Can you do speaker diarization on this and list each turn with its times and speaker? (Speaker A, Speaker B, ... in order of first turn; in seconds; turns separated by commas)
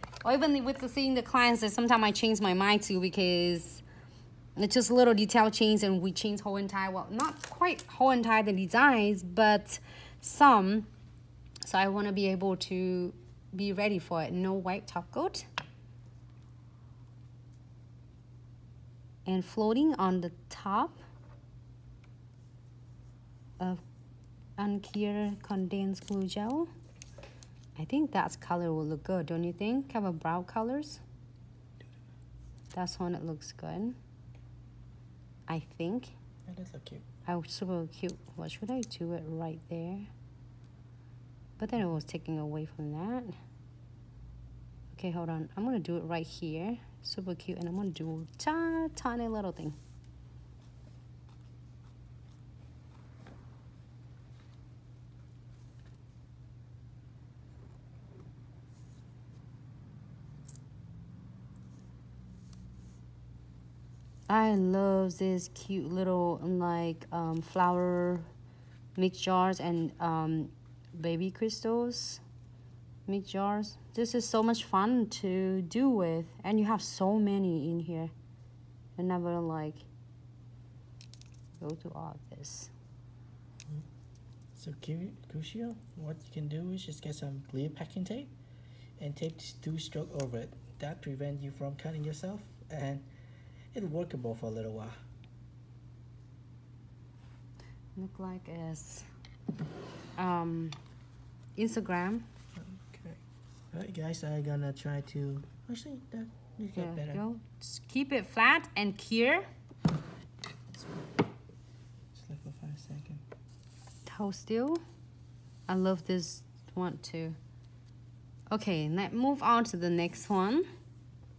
Speaker A: 0.2-3.8, Speaker A: 4.6-10.9, Speaker A: 11.6-15.5, Speaker A: 19.2-21.0, Speaker A: 24.6-26.7, Speaker A: 27.8-31.0, Speaker A: 32.7-34.0, Speaker A: 35.5-36.1, Speaker B: 36.5-37.0, Speaker A: 37.2-40.1, Speaker A: 41.6-43.4, Speaker A: 44.9-49.8, Speaker A: 64.3-68.3, Speaker A: 69.0-72.2, Speaker A: 73.1-78.1, Speaker A: 79.0-79.8, Speaker A: 81.6-82.7, Speaker B: 84.5-88.3, Speaker B: 89.0-93.1, Speaker B: 93.7-94.9, Speaker A: 98.0-99.1, Speaker A: 100.2-100.8, Speaker A: 101.5-102.2, Speaker B: 102.5-107.2, Speaker A: 106.8-109.4, Speaker B: 112.1-113.2, Speaker A: 114.0-114.8, Speaker A: 115.7-117.3, Speaker A: 118.5-120.7